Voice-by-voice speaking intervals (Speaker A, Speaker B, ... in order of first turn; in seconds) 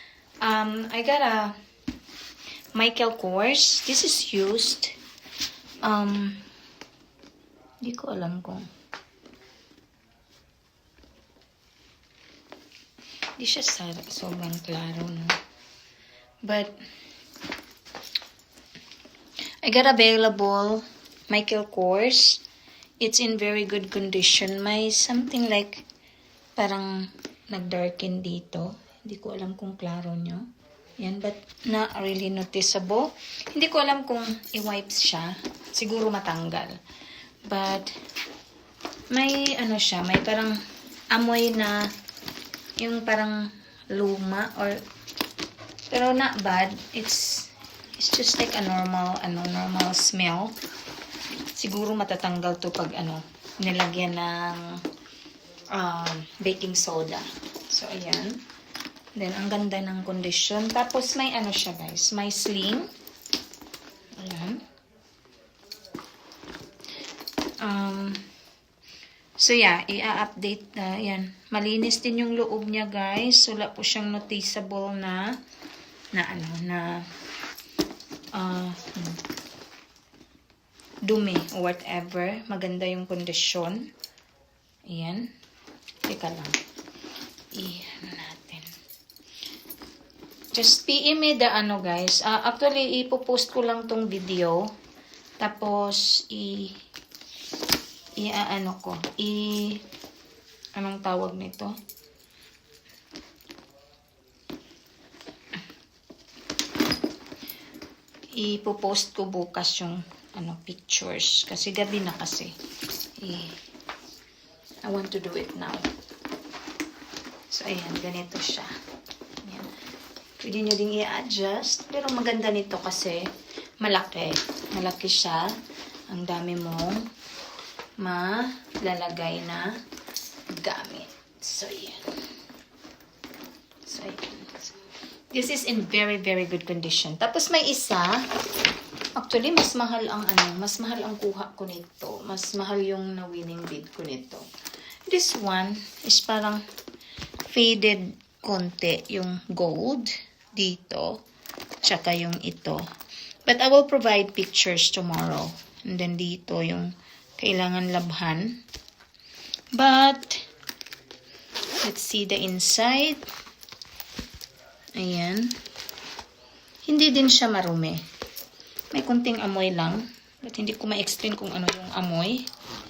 Speaker A: 0.4-1.5, 2.7-4.9, 5.8-6.4, 7.8-8.7, 13.4-15.3, 16.4-16.8, 19.6-22.4, 23.0-25.8, 26.6-30.4, 31.0-36.8, 37.5-37.9, 39.1-40.6, 41.1-41.9, 42.8-44.8, 45.9-50.5, 51.5-54.8, 55.7-58.4, 59.1-62.9, 64.2-64.6, 67.6-68.2, 69.4-75.3, 76.1-77.1, 78.3-79.2, 81.0-83.9, 84.9-85.2, 86.0-86.6, 87.5-88.7, 90.5-94.7, 95.4-96.7, 98.2-99.8, 100.8-101.7, 108.3-112.5, 113.2-113.5, 114.8-115.8, 117.5-118.7, 119.4-119.7, 120.4-123.3, 123.8-125.5, 126.1-127.0, 128.0-129.7, 130.5-132.0, 133.8-134.8, 135.3-138.2, 139.2-144.5, 145.1-146.6, 147.5-151.2, 151.8-152.8, 153.4-158.6, 159.7-160.4, 161.8-163.2, 164.9-165.5, 166.8-168.0, 168.9-172.5